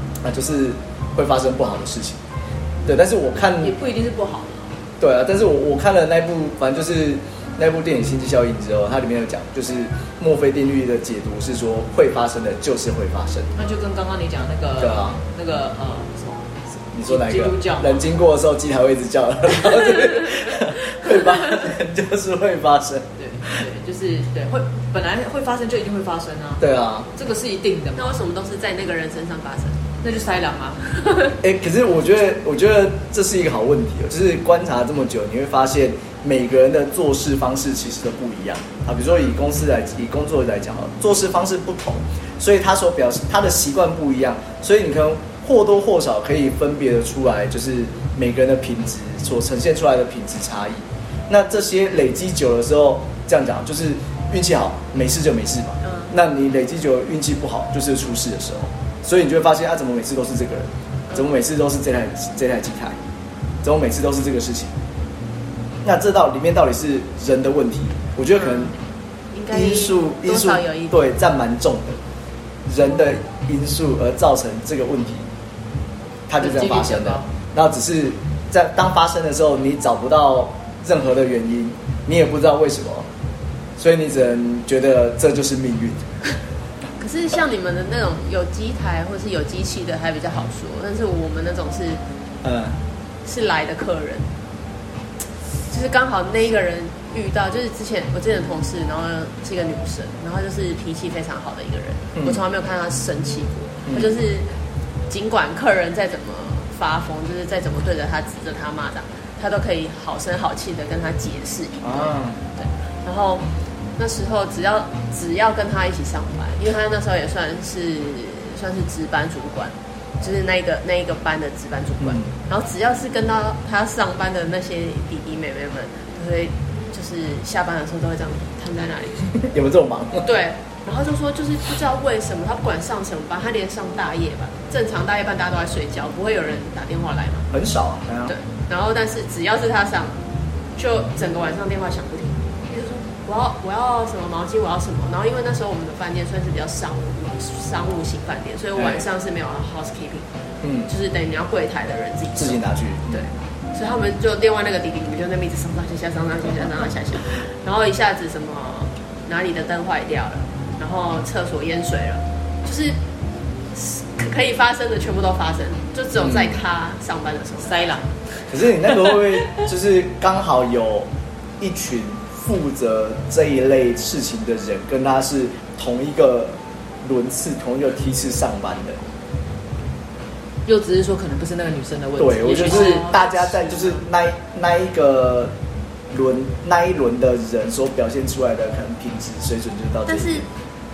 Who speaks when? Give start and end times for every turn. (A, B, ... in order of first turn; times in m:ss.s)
0:00.2-0:02.2 A
0:02.9-0:03.8 A
0:03.6-0:04.7 B
0:05.0-0:13.5 A
0:13.6-0:18.0 B
0:14.8-0:15.2 A
0:16.9-0:23.5 A
0:23.2-0:28.2 B
0:26.6-0:27.1 A
0:28.0-0:29.8 C
0:30.0-0:31.1 B
0:31.4-1:03.0 A
0:55.8-0:56.1 C
1:03.6-1:04.7 A
1:05.8-1:08.7 A
1:09.3-1:11.0 C
1:09.5-1:12.0 A
1:12.7-1:15.3 A
1:16.3-1:23.1 A
1:16.4-1:17.3 B
1:23.8-1:26.2 A
1:27.0-1:32.0 C
1:32.4-1:32.8 A
1:33.2-1:34.3 C
1:35.7-1:44.5 C
1:42.2-1:42.4 A
1:43.9-1:44.2 A
1:45.1-2:09.4 C
1:51.8-1:52.4 A
2:02.0-2:02.3 A
2:09.4-2:10.3 A
2:10.2-2:17.5 C
2:17.5-2:18.3 A
2:18.3-2:20.2 C
2:20.8-2:30.3 C
2:28.8-2:29.0 A
2:30.6-2:30.9 A
2:30.9-2:43.0 C
2:32.4-2:33.2 A
2:43.7-2:48.0 C
2:46.2-2:46.6 A
2:47.6-2:48.1 B
2:48.5-2:59.0 A
3:00.7-3:03.9 B
3:02.2-3:05.5 A
3:02.6-3:03.2 C
3:06.1-3:10.5 A
3:10.1-3:10.4 C